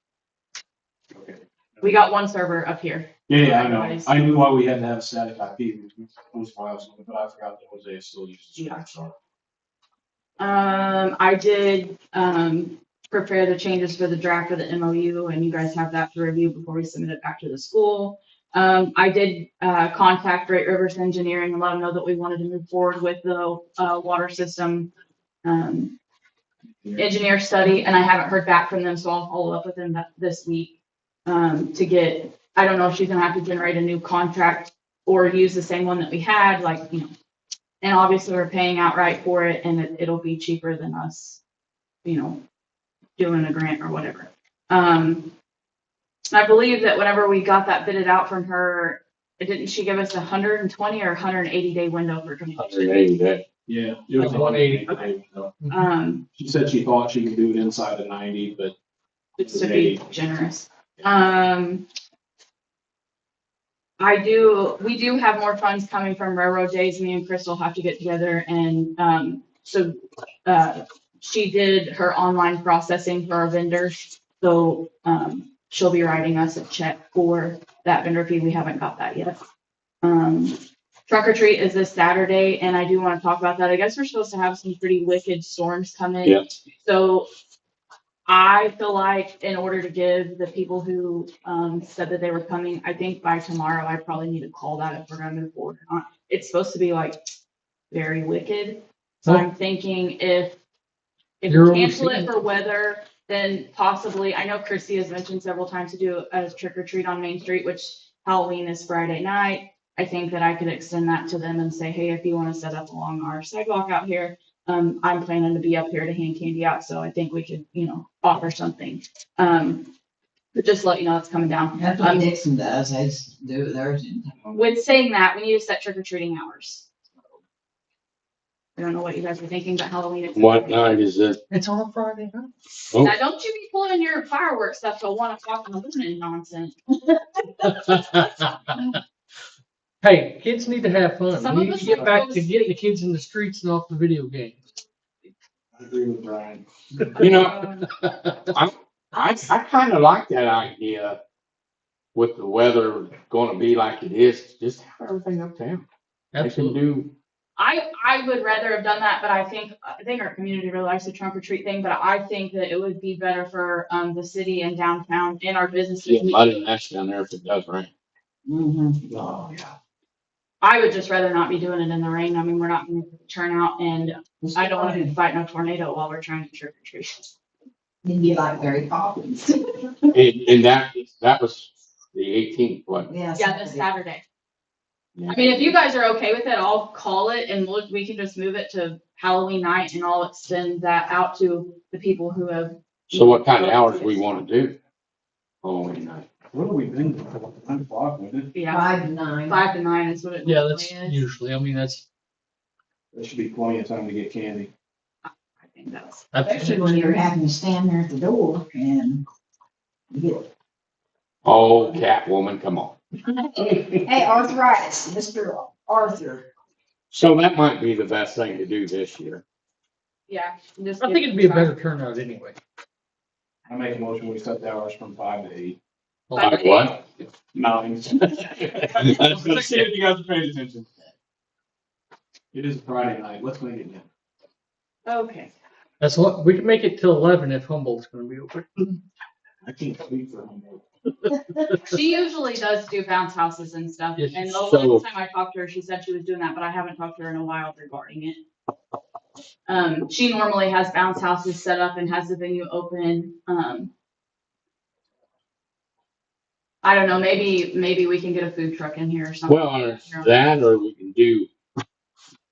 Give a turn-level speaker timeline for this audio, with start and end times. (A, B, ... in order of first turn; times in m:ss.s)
0:01.1-0:02.0 A
0:01.8-0:04.1 B
0:03.3-0:09.2 A
0:10.4-0:24.9 B
0:25.4-0:25.9 B
0:26.8-0:27.1 A
0:27.0-0:37.1 B
0:37.8-0:41.4 B
0:42.0-0:42.4 B
0:43.2-0:45.3 B
0:46.3-0:53.0 B
0:52.6-0:53.4 C
0:53.7-0:55.5 A
0:54.2-0:55.1 D
0:55.6-0:55.9 D
0:55.7-0:56.2 B
0:56.4-0:58.8 A
0:59.4-1:01.8 B
0:59.4-1:00.0 A
1:04.0-1:19.4 B
1:20.0-1:20.6 B
1:21.1-1:27.3 B
1:28.3-1:37.2 B
1:37.9-1:40.6 B
1:41.4-1:59.9 B
1:41.5-1:42.3 D
2:00.5-2:02.3 B
2:01.8-2:04.4 E
2:04.5-2:06.9 B
2:08.8-2:10.9 B
2:10.3-2:11.4 C
2:11.5-2:12.5 D
2:12.9-2:13.2 C
2:13.0-2:16.8 B
2:17.6-2:18.5 D
2:20.0-2:24.6 D
2:21.4-2:22.8 B
2:25.8-2:27.2 A
2:27.2-2:27.6 C
2:27.4-2:27.8 B
2:27.8-2:28.5 D
2:28.5-2:31.2 C
2:32.2-2:35.8 C
2:36.3-2:36.8 D
2:36.4-2:37.1 C
2:37.6-2:46.7 B
2:46.1-2:47.9 C
2:48.5-2:49.0 E
2:49.2-2:49.6 A
2:49.2-2:49.5 C
2:50.6-2:57.3 B
2:54.4-2:55.2 E
2:58.0-3:00.2 E
3:00.1-3:03.1 C
3:03.0-3:03.8 E
3:03.4-3:04.2 B
3:05.2-3:05.7 C
3:05.3-3:14.4 B
3:13.1-3:14.8 C
3:15.6-3:16.3 C
3:16.5-3:18.5 A
3:18.5-3:19.0 B
3:18.7-3:19.6 E
3:19.5-3:21.2 B
3:20.4-3:22.0 D
3:23.1-3:24.7 A
3:25.3-3:26.3 B
3:26.3-3:27.0 D
3:26.4-3:29.2 E
3:30.1-3:30.5 E
3:31.4-3:33.0 C
3:33.3-3:36.5 E
3:37.1-3:39.4 C
3:40.3-3:41.8 B
3:41.0-3:42.6 D
3:43.7-3:45.8 A
3:46.3-3:46.6 D
3:46.4-3:47.0 B
3:46.4-3:46.9 C
3:47.5-3:51.1 A
3:48.9-3:49.7 C
3:49.1-3:49.9 D
3:52.5-3:54.1 A
3:55.1-3:55.5 B
3:56.0-3:59.0 D
3:59.6-4:00.8 A
4:01.9-4:08.4 B
4:04.2-4:04.6 D
4:04.6-4:05.0 C
4:09.7-4:13.9 B
4:16.8-4:20.4 B
4:19.5-4:21.5 C